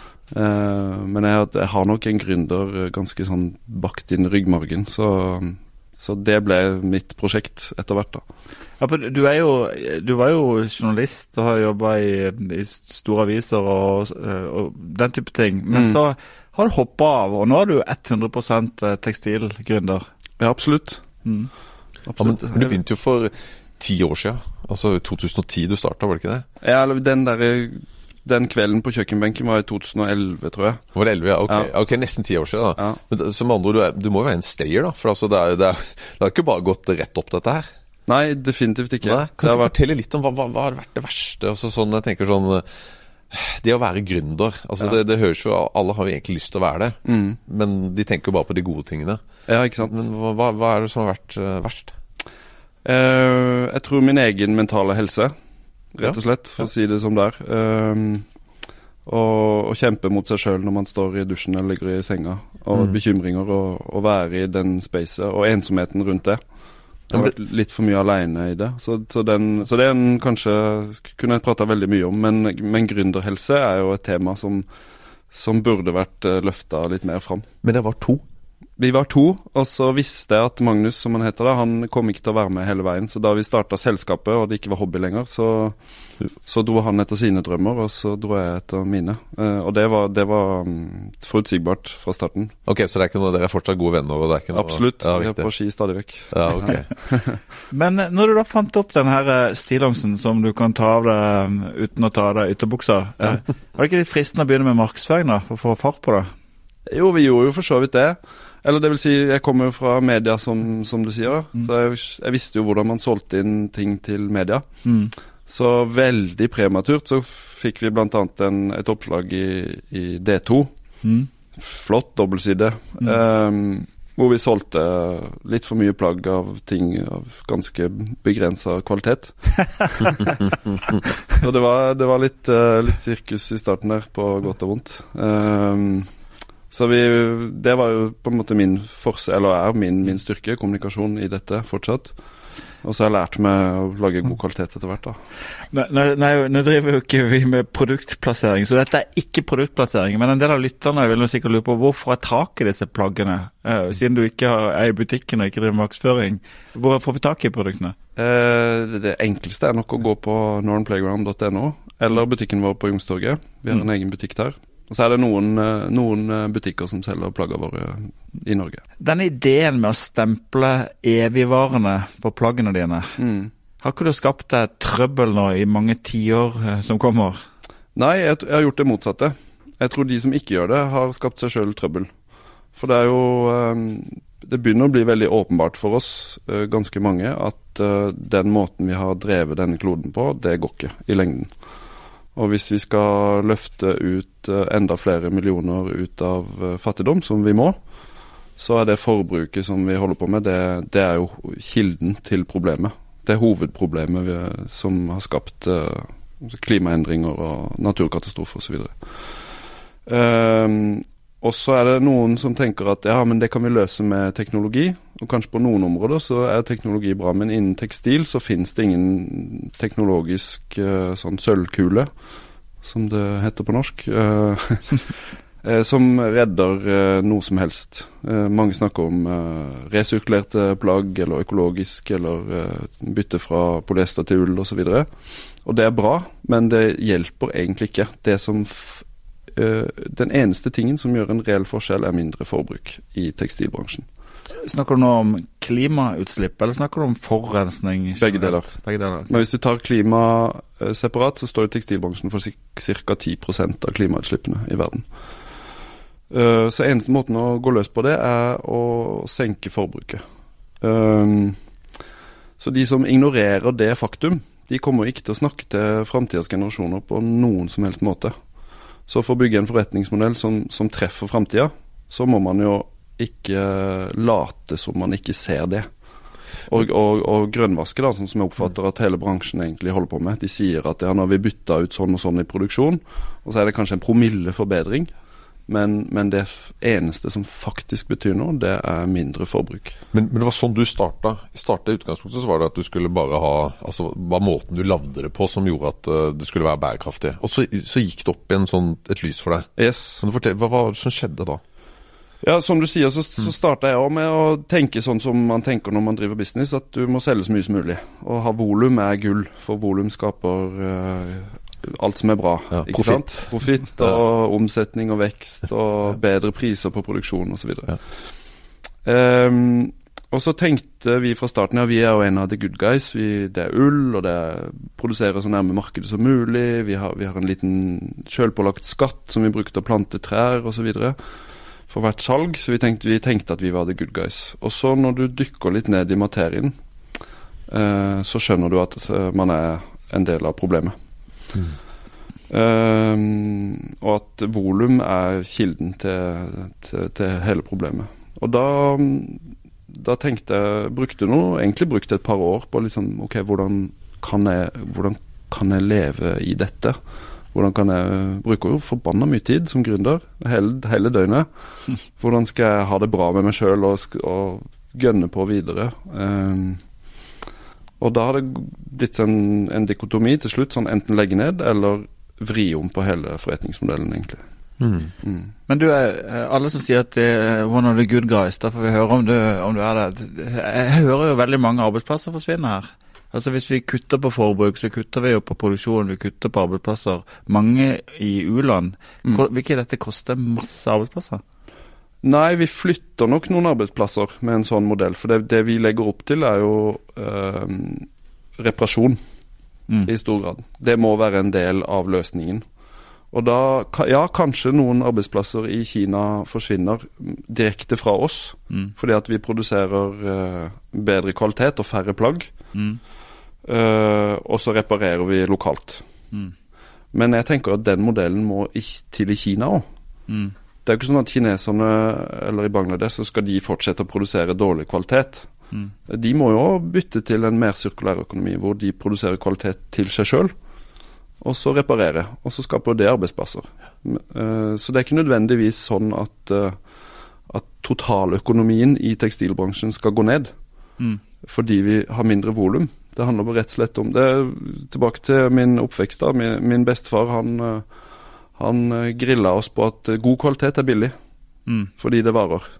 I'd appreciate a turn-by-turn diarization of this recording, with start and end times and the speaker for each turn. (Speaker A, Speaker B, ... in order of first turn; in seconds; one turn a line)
Speaker A: 0.3-8.2
Speaker B: 8.8-20.0
Speaker A: 15.7-16.0
Speaker A: 20.4-21.0
Speaker B: 21.2-21.5
Speaker A: 22.1-22.8
Speaker C: 22.2-26.4
Speaker A: 26.6-30.8
Speaker C: 30.9-37.7
Speaker A: 38.1-39.7
Speaker C: 39.0-42.7
Speaker C: 43.3-49.2
Speaker A: 47.0-47.4
Speaker A: 49.5-49.9
Speaker C: 49.9-51.9
Speaker A: 52.8-55.3
Speaker A: 55.9-58.2
Speaker A: 59.0-66.4
Speaker A: 67.1-74.7
Speaker A: 75.3-77.5
Speaker C: 77.6-78.2
Speaker A: 78.8-85.8
Speaker A: 86.4-92.5
Speaker C: 92.7-95.5
Speaker A: 94.5-97.4
Speaker C: 96.3-96.9
Speaker B: 97.7-106.3
Speaker A: 106.9-114.6
Speaker B: 114.8-115.1
Speaker A: 115.5-120.7
Speaker B: 121.0-121.3
Speaker A: 121.6-136.1
Speaker A: 136.7-142.1
Speaker A: 142.8-145.2
Speaker B: 145.7-157.9
Speaker A: 158.2-168.8
Speaker B: 169.0-173.2
Speaker A: 173.2-173.5
Speaker B: 173.8-177.4
Speaker A: 177.9-182.1
Speaker A: 182.7-191.5
Speaker A: 192.3-197.8
Speaker A: 198.6-208.9
Speaker A: 210.1-222.1
Speaker A: 222.8-225.1
Speaker A: 225.6-235.1
Speaker A: 235.6-244.0
Speaker B: 244.6-249.3
Speaker A: 248.2-248.7
Speaker A: 249.3-255.0
Speaker A: 256.3-260.2
Speaker A: 260.8-261.6
Speaker A: 262.6-268.3
Speaker A: 269.1-275.9
Speaker A: 276.7-285.1
Speaker A: 285.7-290.0
Speaker C: 290.1-299.7
Speaker A: 299.8-300.2
Speaker C: 300.2-301.6
Speaker A: 302.4-317.9
Speaker C: 312.7-314.1
Speaker A: 319.0-331.1
Speaker A: 331.9-336.7
Speaker A: 337.7-340.9
Speaker A: 342.5-357.0
Speaker A: 357.5-361.5
Speaker A: 362.2-366.8
Speaker A: 368.0-374.4
Speaker C: 374.8-375.1
Speaker B: 375.7-391.4
Speaker A: 392.2-398.1
Speaker A: 398.6-399.2
Speaker A: 400.1-402.6
Speaker A: 403.3-412.5
Speaker B: 412.7-413.0
Speaker A: 413.6-416.0
Speaker A: 417.1-419.8
Speaker B: 420.3-420.5
Speaker A: 420.8-425.5
Speaker A: 426.1-430.5
Speaker A: 431.4-436.8
Speaker A: 437.5-440.5
Speaker A: 441.4-447.8
Speaker A: 448.6-451.1
Speaker A: 452.0-452.7